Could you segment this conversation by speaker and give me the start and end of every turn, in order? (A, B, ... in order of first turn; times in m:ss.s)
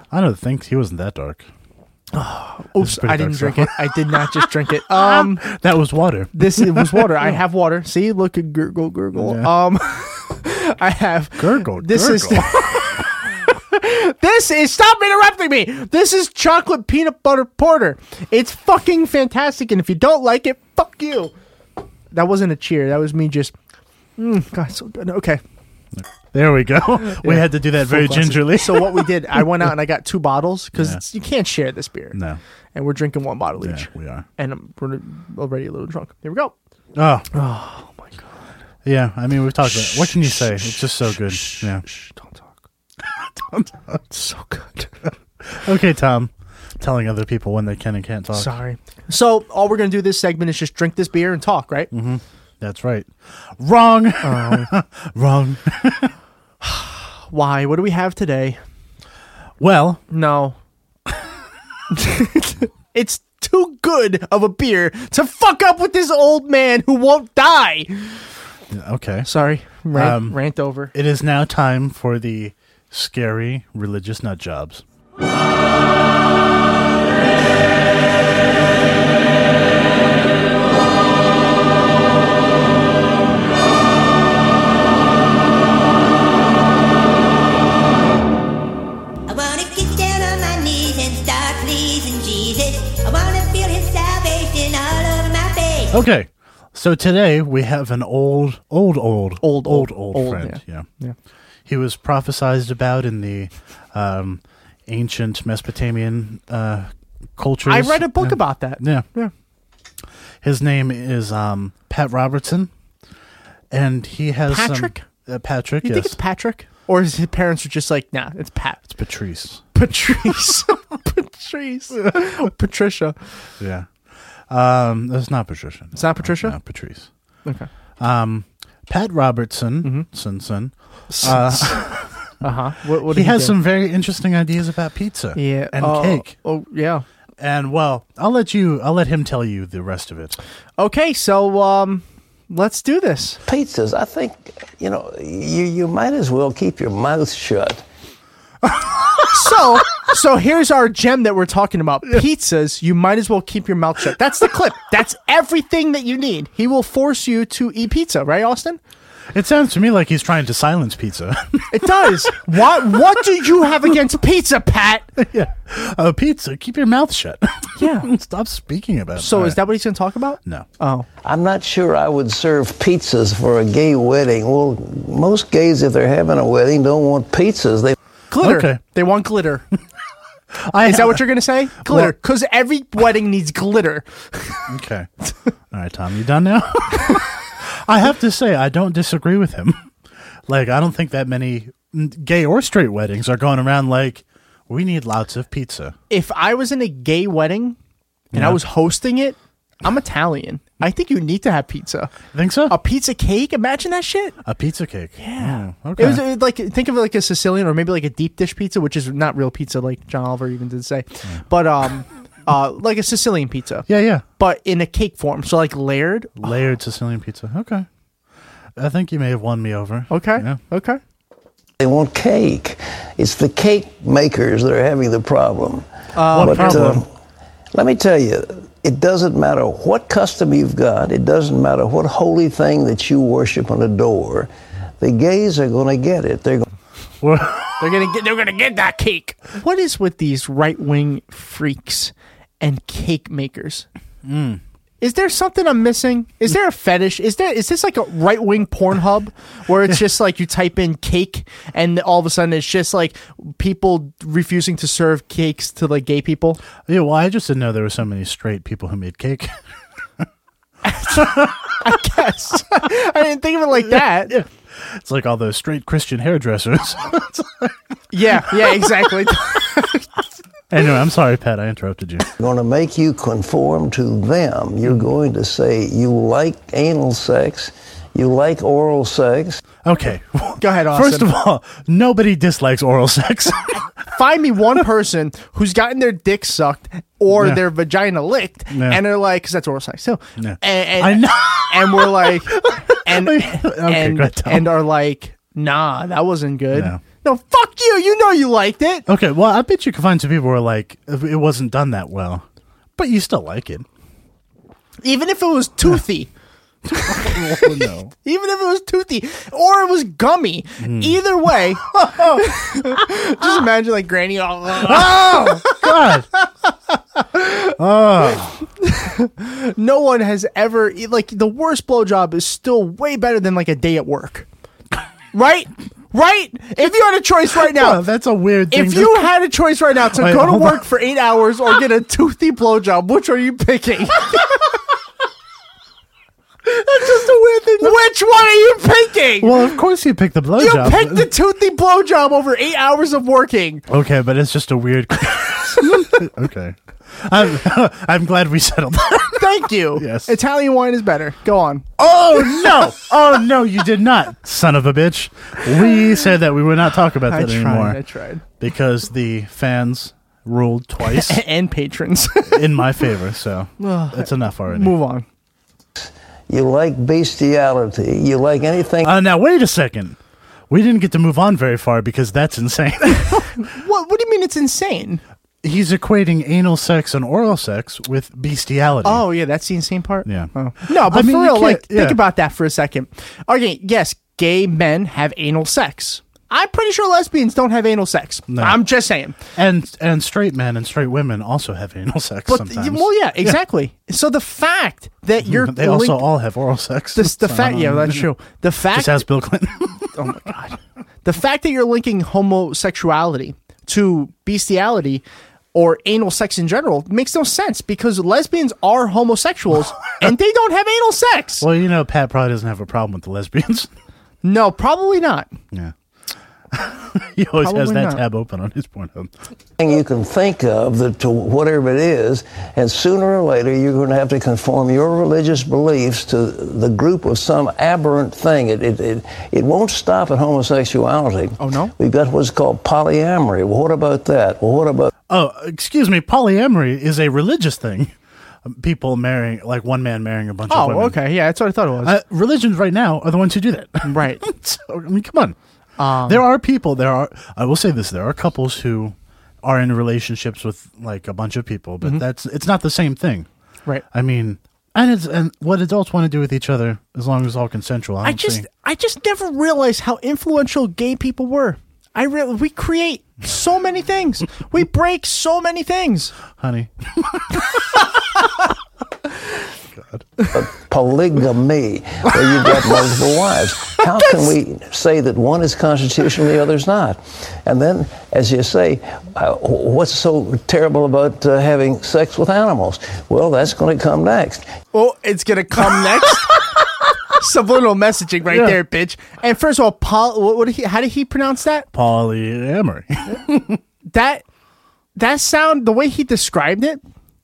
0:00.1-0:01.5 A
0:02.1-0:05.4 B
0:02.8-0:07.3 A
0:06.3-0:21.3 B
0:09.2-0:09.5 A
0:11.4-0:13.0 A
0:22.1-0:23.5 B
0:24.2-0:25.4 B
0:26.0-0:29.7 A
0:27.1-0:32.2 B
0:30.8-0:31.0 A
0:32.1-0:32.4 A
0:32.7-0:36.5 B
0:33.6-0:34.2 A
0:36.9-0:37.3 A
0:37.3-0:38.4 B
0:38.8-0:41.8 A
0:39.8-0:42.5 B
0:43.2-0:44.0 A
0:44.1-0:44.9 B
0:45.4-0:48.5 A
0:48.3-0:51.9 B
0:51.9-0:56.1 A
0:54.2-0:54.7 B
0:56.6-0:58.6 B
0:59.6-1:00.0 A
1:00.1-1:00.6 B
1:01.9-1:08.2 B
1:08.7-1:09.3 A
1:09.3-1:10.9 B
1:09.9-1:10.4 A
1:10.9-1:14.8 A
1:29.3-1:36.0 C
1:35.9-1:40.8 A
1:39.4-1:41.2 B
1:41.6-1:49.0 A
1:47.6-1:49.3 B
1:50.4-1:52.7 A
1:53.7-1:56.2 A
1:54.5-1:55.0 B
1:55.8-1:58.8 B
1:58.9-1:59.6 A
1:59.7-2:03.2 B
2:03.6-2:03.9 A
2:04.5-2:07.1 A
2:05.9-2:06.6 B
2:08.0-2:12.3 A
2:11.1-2:11.8 B
2:12.4-2:13.6 B
2:13.0-2:16.3 A
2:15.4-2:17.0 B
2:17.4-2:20.4 A
2:20.8-2:23.4 B
2:23.5-2:27.8 D
2:29.3-2:38.8 B
2:39.3-2:42.2 A
2:41.7-2:45.1 B
2:45.2-2:49.6 A
2:47.8-2:48.1 B
2:49.2-2:51.1 B
2:51.2-2:57.9 D
2:58.3-2:59.6 B
2:58.4-2:58.8 A
3:00.5-3:01.2 A
3:00.8-3:04.6 B
3:01.8-3:02.1 A
3:04.7-3:05.1 A
3:05.7-3:09.9 A
3:10.5-3:15.9 A
3:16.1-3:17.8 B
3:18.3-3:18.6 A
3:18.3-3:22.1 B
3:22.3-3:22.7 A
3:22.7-3:24.4 B
3:24.4-3:26.2 A
3:25.2-3:33.9 B
3:33.9-3:34.2 A
3:34.4-3:36.5 B
3:36.4-3:37.8 A
3:38.8-3:40.6 A
3:40.1-3:41.0 B
3:41.8-3:45.8 D
3:46.1-3:47.0 B
3:46.3-3:47.0 A
3:46.4-3:47.0 D
3:47.7-3:54.5 D
3:55.0-3:56.6 D
3:57.2-3:57.8 A
3:57.8-4:03.9 B
4:04.2-4:04.6 A
4:05.0-4:16.6 B
4:16.8-4:19.5 A
4:20.8-4:24.4 B
4:21.2-4:21.6 A
4:23.9-4:27.8 A
4:28.1-4:30.1 B
4:28.3-4:29.0 A
4:30.7-4:32.3 A
4:32.4-4:39.6 D
4:39.8-4:43.8 A
4:40.6-4:41.3 B
4:44.1-4:59.0 B
4:47.3-4:47.6 A
4:48.7-4:49.0 A
4:50.4-4:54.8 A
4:56.7-4:57.0 A
4:59.1-5:02.4 A
5:03.0-5:03.9 A
5:05.0-5:06.3 B
5:06.9-5:08.1 A
5:06.9-5:15.9 B
5:10.8-5:11.2 A
5:11.8-5:13.0 A
5:14.8-5:16.3 A
5:17.4-5:17.7 B
5:17.7-5:18.6 A
5:18.8-5:24.4 B
5:25.3-5:28.0 B
5:27.5-5:29.3 A
5:28.7-5:34.7 B
5:30.0-5:30.8 A
5:36.7-5:39.8 B
5:37.0-5:38.0 A
5:39.4-5:41.3 A
5:40.6-5:43.8 B
5:43.9-5:50.3 A
5:49.4-5:51.8 B
5:52.0-5:58.0 A
5:57.2-5:58.4 B
5:58.6-6:01.4 A
6:01.0-6:02.9 B
6:02.4-6:05.0 A
6:03.8-6:05.2 B
6:06.5-6:09.1 D
6:09.0-6:10.2 A
6:10.7-6:13.6 A
6:13.2-6:15.2 B
6:15.6-6:19.2 A
6:19.0-6:29.4 B
6:20.2-6:22.2 A
6:28.5-6:28.8 A
6:29.5-6:33.6 A
6:32.5-6:36.2 B
6:35.4-6:38.3 A
6:37.1-6:39.2 B
6:38.9-6:40.1 A
6:40.1-6:51.6 B
6:51.6-6:53.9 A
6:54.4-6:55.5 B
6:56.7-6:59.3 A
6:57.6-6:58.2 B
6:59.8-7:15.1 D
7:11.6-7:11.9 B
7:15.3-7:18.1 A
7:18.6-7:21.2 A
7:20.7-7:22.2 B
7:22.0-7:25.6 A
7:24.0-7:24.4 B
7:26.0-7:26.4 B
7:26.2-7:33.5 A
7:34.1-7:38.7 A
7:38.2-7:46.3 B
7:46.6-7:48.0 A
7:49.9-7:50.2 A
7:50.5-8:04.6 D
8:04.9-8:06.7 B
8:07.3-8:11.9 B
8:08.5-8:08.8 A
8:11.9-8:13.8 A
8:14.1-8:14.4 B
8:15.2-8:17.0 B